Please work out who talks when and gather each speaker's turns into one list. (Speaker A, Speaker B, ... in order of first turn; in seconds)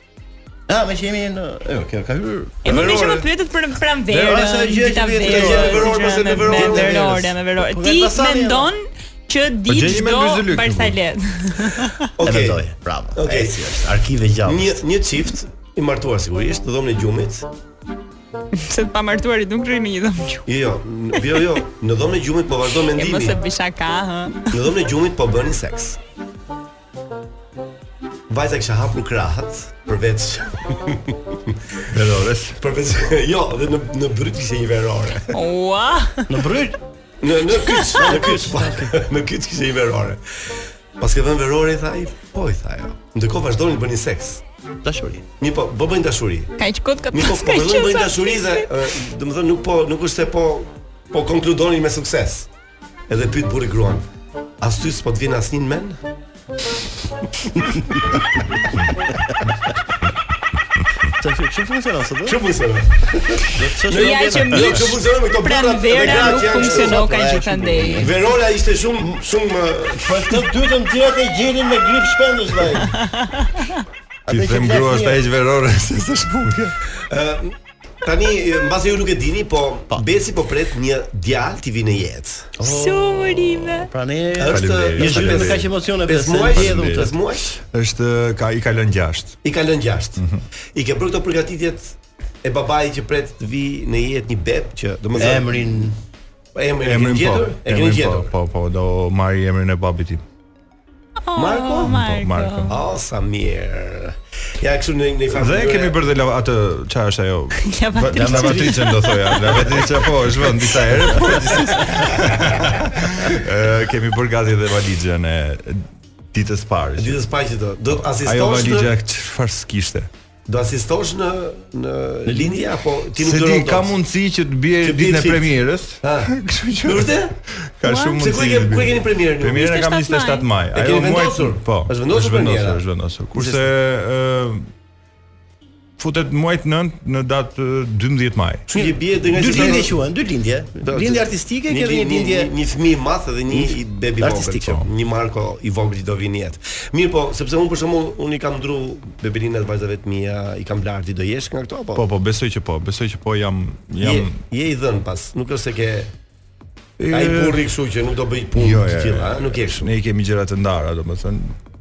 Speaker A: 0.7-3.0, 4.1-8.7, 12.2-14.8, 36.3-36.8, 38.0-39.0, 44.8-45.2, 61.2-62.4, 63.5-64.9, 66.0-68.2, 70.0-73.0, 74.3-75.2, 82.6-87.1, 95.2-96.0, 108.1-109.8, 122.3-122.6, 138.7-142.5, 143.5-144.8
Speaker B: 2.6-12.0, 18.6-20.5, 22.9-24.5, 35.3-36.3, 46.6-48.7, 63.9-68.2, 73.1-73.7, 82.6-83.9, 101.3-102.8, 107.6-109.2, 127.8-128.2, 129.5-130.5
Speaker C: 2.6-3.3, 5.2-7.3, 12.2-13.7, 14.4-17.5, 20.5-23.4, 24.5-26.0, 28.3-31.6, 32.6-35.4, 37.2-44.4, 45.4-46.5, 47.1-52.5, 53.1-54.1, 54.6-56.0, 62.2-67.0, 68.0-70.4, 77.0-82.5, 84.4-87.6, 89.4-90.2, 90.7-95.9, 96.5-98.3, 101.3-102.0, 102.7-106.0, 117.0-118.9, 120.5-124.0, 124.8-127.3, 128.2-129.6, 130.7-133.6, 138.7-140.0, 140.8-152.1, 154.0-156.1, 157.1-159.9
Speaker D: 9.7-11.0, 31.9-32.6, 74.3-76.8, 84.5-85.8, 86.5-89.4, 90.2-90.4, 96.8-100.2, 101.8-102.8, 105.3-117.2, 118.2-120.1, 123.2-134.7, 136.0-138.7, 151.9-154.4, 157.0-157.6, 158.6-161.6